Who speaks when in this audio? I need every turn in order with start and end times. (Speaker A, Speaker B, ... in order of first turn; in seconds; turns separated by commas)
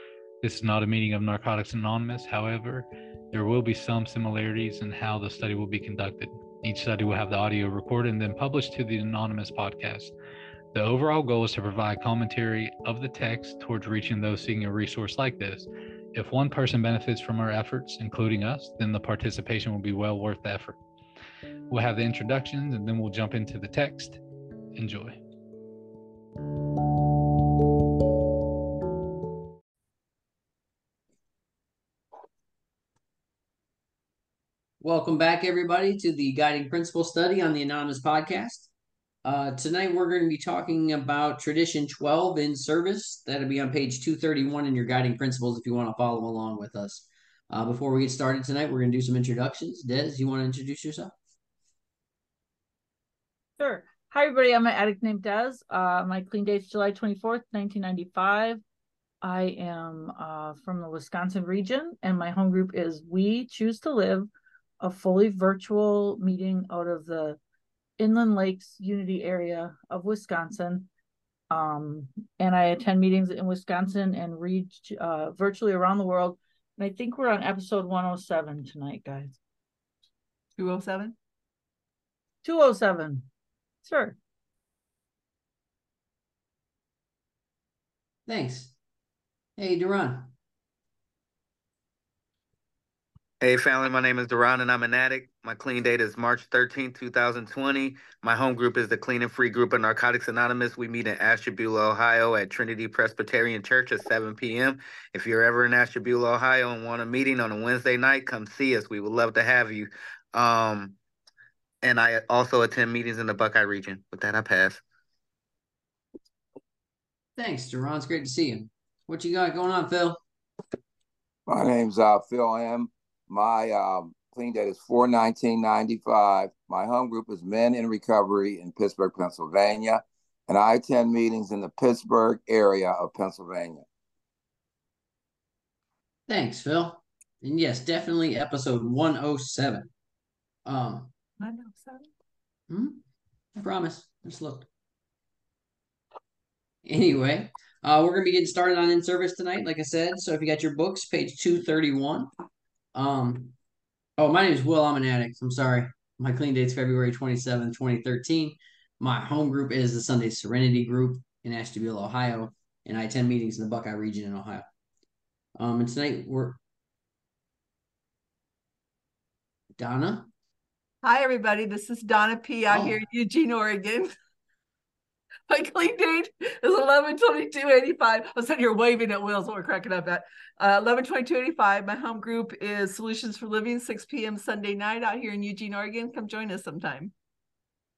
Speaker A: 0.4-10.1, Speaker A: 10.7-20.8, Speaker A: 21.7-24.2, Speaker A: 24.8-25.2, Speaker B: 34.8-38.7, Speaker B: 39.2-51.1, Speaker C: 53.6-58.6, Speaker C: 59.2-64.3, Speaker C: 64.8-67.4, Speaker C: 68.0-70.9, Speaker C: 71.5-79.4, Speaker D: 80.6-81.2, Speaker C: 82.4-83.3, Speaker C: 83.8-84.2, Speaker B: 88.3-88.7, Speaker B: 89.6-90.3, Speaker E: 93.4-111.0, Speaker E: 111.8-114.8, Speaker B: 117.4-120.2, Speaker F: 121.5-133.8, Speaker B: 136.3-139.9, Speaker B: 140.7-141.1, Speaker D: 141.4-142.1, Speaker B: 142.7-143.0, Speaker B: 143.6-144.7, Speaker B: 146.8-152.3, Speaker B: 152.9-153.6, Speaker B: 154.2-164.7, Speaker B: 165.6-166.6, Speaker B: 169.8-170.3, Speaker D: 171.0-174.1, Speaker B: 172.7-173.0, Speaker D: 175.5-187.1